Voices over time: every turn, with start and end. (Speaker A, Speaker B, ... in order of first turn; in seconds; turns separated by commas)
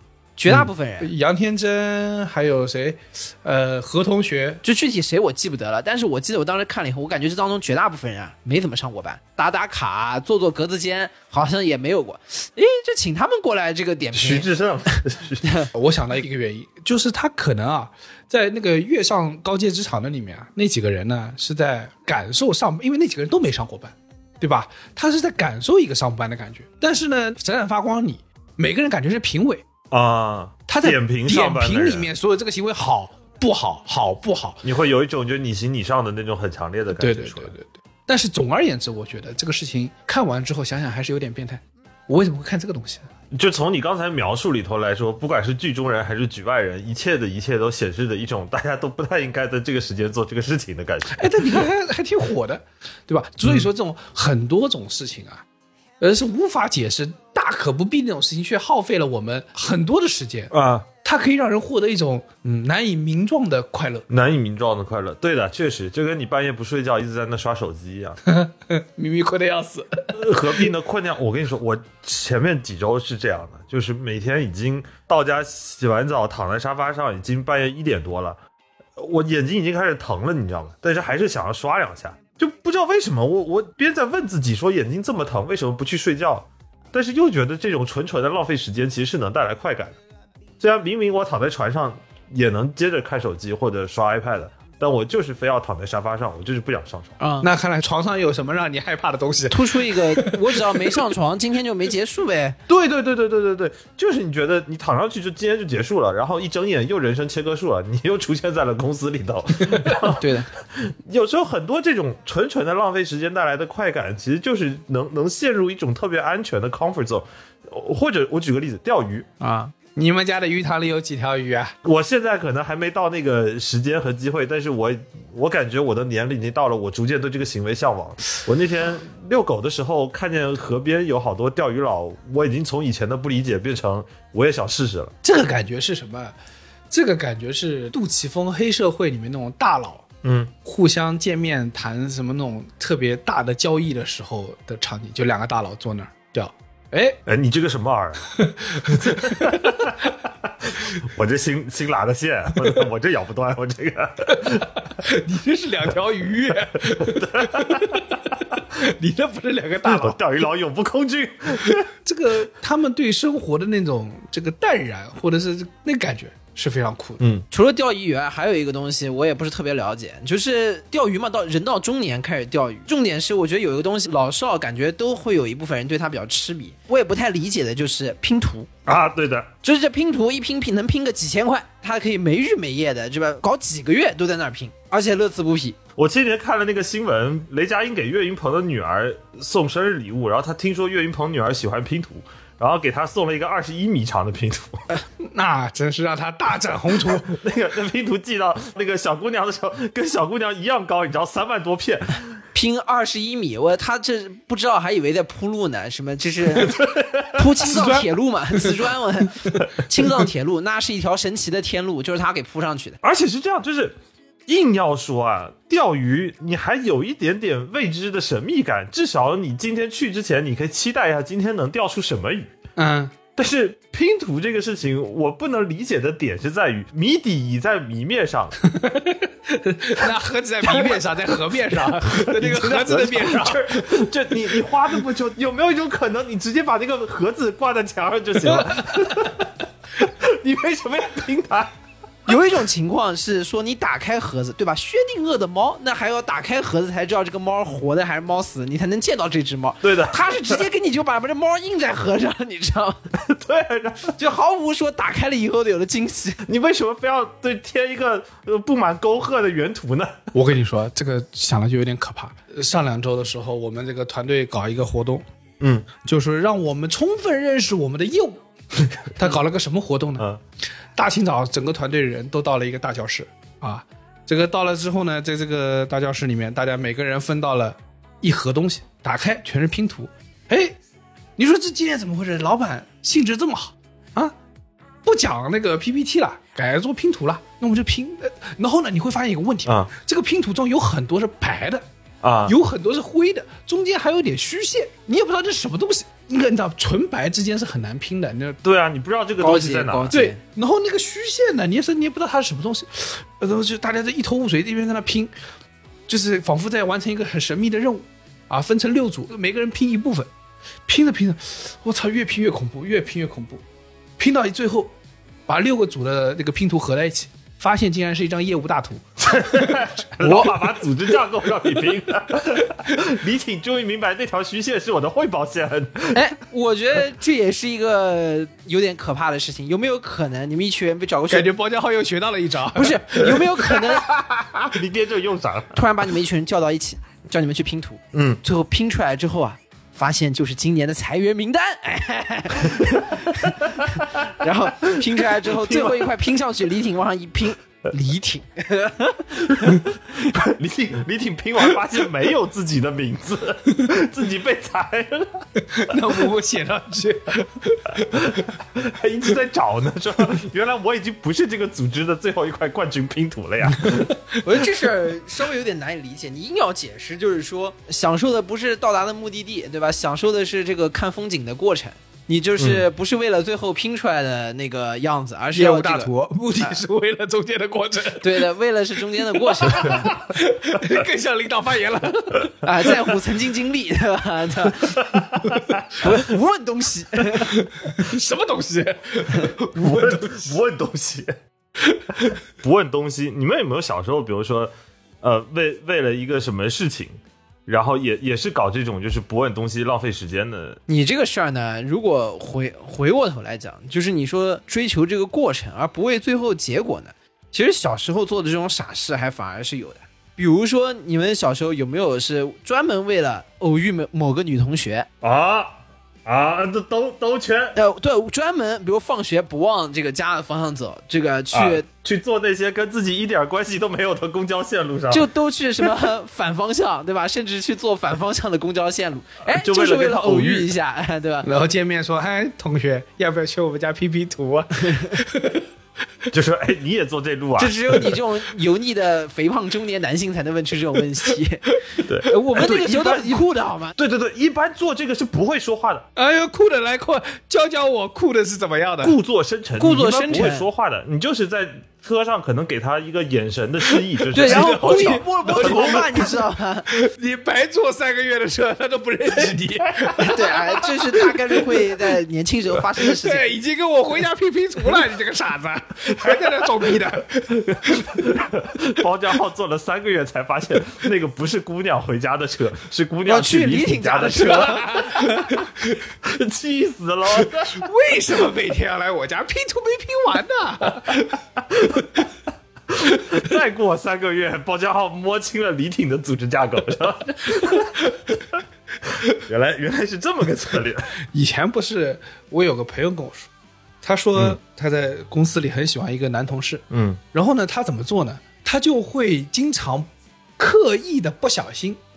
Speaker A: 0.4-1.1, Speaker B: 1.0-4.6, Speaker A: 4.6-15.7, Speaker C: 14.1-15.5, Speaker B: 15.7-29.6, Speaker C: 29.9-32.1, Speaker B: 30.7-34.6, Speaker C: 34.6-37.5, Speaker B: 36.9-43.1, Speaker C: 43.3-51.7, Speaker B: 51.1-55.4, Speaker B: 56.0-64.0, Speaker C: 60.5-60.9, Speaker C: 64.1-68.2, Speaker B: 68.2-70.2, Speaker C: 70.1-78.4, Speaker C: 79.0-90.0, Speaker C: 90.6-97.2, Speaker A: 97.2-97.5, Speaker B: 97.4-101.0, Speaker A: 99.5-102.6, Speaker C: 102.7-119.3, Speaker A: 110.2-110.5, Speaker A: 119.4-119.7, Speaker B: 119.9-121.7, Speaker C: 121.8-135.1, Speaker B: 135.2-136.3, Speaker B: 136.9-140.1, Speaker C: 140.2-140.5, Speaker B: 140.6-147.2, Speaker C: 147.2-154.8, Speaker B: 148.3-149.9, Speaker B: 154.3-160.2, Speaker C: 157.0-158.2, Speaker C: 159.8-161.9, Speaker B: 161.6-167.2, Speaker C: 167.2-167.4, Speaker A: 167.5-178.7, Speaker C: 178.8-179.5, Speaker A: 179.6-185.8, Speaker C: 186.0-194.8, Speaker B: 195.2-197.4, Speaker C: 197.1-202.4, Speaker A: 202.5-213.0, Speaker C: 206.6-207.3, Speaker B: 207.7-208.1, Speaker C: 213.0-213.9, Speaker C: 214.5-222.5, Speaker B: 222.8-223.2, Speaker C: 223.3-228.6, Speaker B: 228.7-234.1, Speaker C: 231.9-241.7, Speaker B: 238.4-239.3, Speaker A: 242.2-253.0, Speaker C: 249.8-250.6, Speaker C: 253.2-254.2, Speaker A: 254.2-256.4, Speaker C: 256.4-260.3, Speaker B: 260.3-265.2, Speaker C: 265.6-265.9, Speaker B: 266.0-268.4, Speaker C: 268.8-269.1, Speaker B: 269.1-270.2, Speaker B: 270.9-280.8, Speaker B: 281.4-284.3, Speaker B: 285.0-291.8, Speaker C: 289.6-289.9, Speaker C: 292.2-292.6, Speaker B: 292.4-298.6, Speaker C: 298.6-300.2, Speaker A: 299.4-300.4, Speaker B: 300.1-305.3, Speaker B: 306.1-310.3, Speaker B: 310.9-313.6, Speaker B: 314.2-314.9, Speaker B: 315.5-321.1, Speaker C: 319.2-326.3, Speaker B: 322.4-323.0, Speaker A: 326.1-331.5, Speaker B: 331.3-333.8, Speaker A: 332.7-334.1, Speaker C: 334.1-335.8, Speaker A: 335.7-350.3, Speaker C: 338.1-338.4, Speaker C: 343.4-343.7, Speaker C: 344.8-346.1, Speaker C: 349.7-355.4, Speaker B: 355.7-358.4, Speaker C: 358.1-364.2, Speaker B: 363.8-364.2, Speaker A: 364.4-376.7, Speaker C: 372.6-372.8, Speaker B: 375.5-378.5, Speaker A: 378.2-380.1, Speaker B: 379.2-382.5, Speaker A: 382.6-385.0, Speaker C: 384.9-385.9, Speaker A: 386.0-387.6, Speaker B: 387.5-390.5, Speaker C: 389.7-391.3, Speaker B: 391.8-392.3, Speaker C: 392.6-394.7, Speaker C: 395.2-400.8, Speaker A: 400.9-415.1, Speaker C: 415.2-417.8, Speaker A: 417.7-421.8, Speaker C: 421.5-425.3, Speaker A: 425.1-431.5, Speaker C: 429.5-430.7, Speaker B: 431.4-435.6, Speaker C: 436.3-438.2, Speaker A: 437.6-441.7, Speaker C: 442.0-443.4, Speaker B: 442.2-443.1, Speaker A: 442.5-443.9, Speaker C: 444.0-446.1, Speaker B: 446.1-449.2, Speaker C: 449.0-456.3, Speaker A: 449.8-450.7, Speaker B: 453.8-461.7, Speaker A: 454.3-456.9, Speaker A: 460.2-463.5, Speaker B: 463.0-468.4, Speaker C: 467.7-475.7, Speaker A: 473.2-475.5, Speaker B: 474.9-475.7, Speaker C: 476.2-477.9, Speaker B: 477.4-482.2, Speaker C: 482.9-488.1, Speaker B: 487.6-487.9, Speaker C: 489.1-491.1, Speaker B: 491.3-493.5, Speaker B: 494.0-502.0, Speaker C: 496.9-497.2